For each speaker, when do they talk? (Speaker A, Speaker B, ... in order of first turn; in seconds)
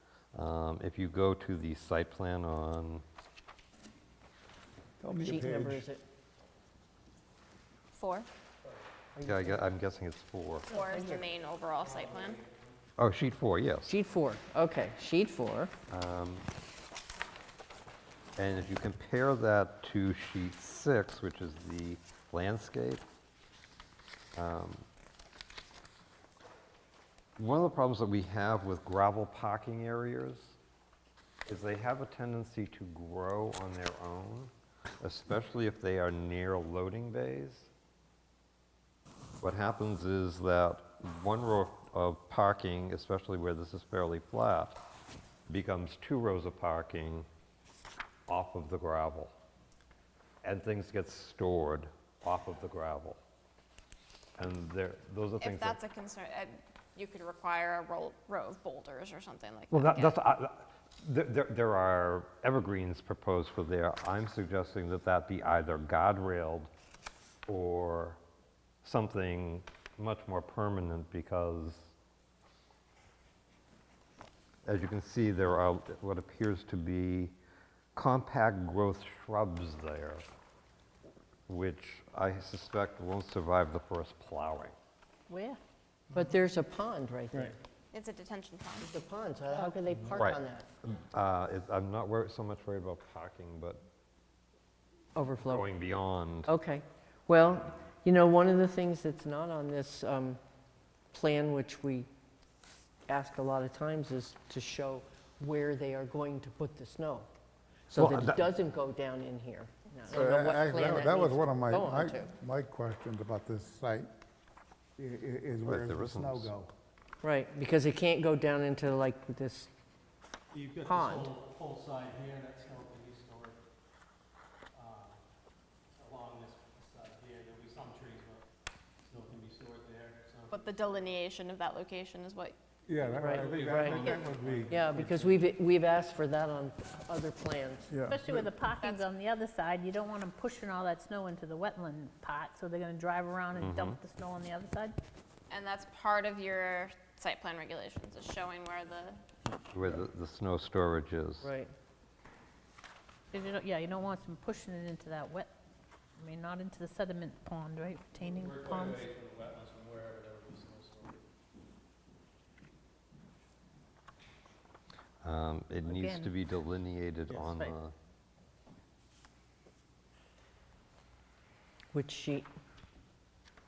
Speaker A: 0.3-3.0, 9.2-10.7, 13.0-13.9, 15.9-16.5, 18.4-23.0, 24.4-24.9, 27.4-30.6, 31.5-37.7, 39.4-44.8, 45.5-47.3, 48.3-49.3, 50.4-53.2, 54.4-55.8, 59.7-66.7, 67.5-68.2, 68.8-71.9, 74.7-77.3, 77.9-80.2, 81.5-84.8, 90.1-93.8, 95.5-96.5, 107.9-108.5, 115.6-116.5, 143.6-144.0, 149.7-151.5, 165.2-167.9
Speaker B: 5.0-5.8, 110.1-114.1, 115.0-116.7, 132.9-134.9, 137.9-138.5
Speaker C: 5.2-6.0, 9.2-9.6, 10.7-11.2, 13.9-15.7, 86.2-87.6, 88.8-90.7, 95.2-95.7, 96.5-100.4, 101.1-102.1, 103.1-107.3, 107.9-112.3, 117.2-119.7, 120.8-121.3, 133.1-134.1, 134.7-137.9, 151.4-151.7, 171.9-172.5
Speaker D: 7.9-8.3, 10.7-12.4, 55.4-60.2, 87.9-88.9, 130.5-132.6, 138.8-139.1, 145.5-149.2
Speaker E: 11.8-12.7, 120.5-123.6, 124.7-125.2, 126.0-128.4, 129.1-131.0, 133.2-135.4, 158.2-161.2, 167.3-167.7
Speaker F: 85.3-85.6, 138.1-144.9, 153.3-155.5, 156.2-159.0, 165.8-166.3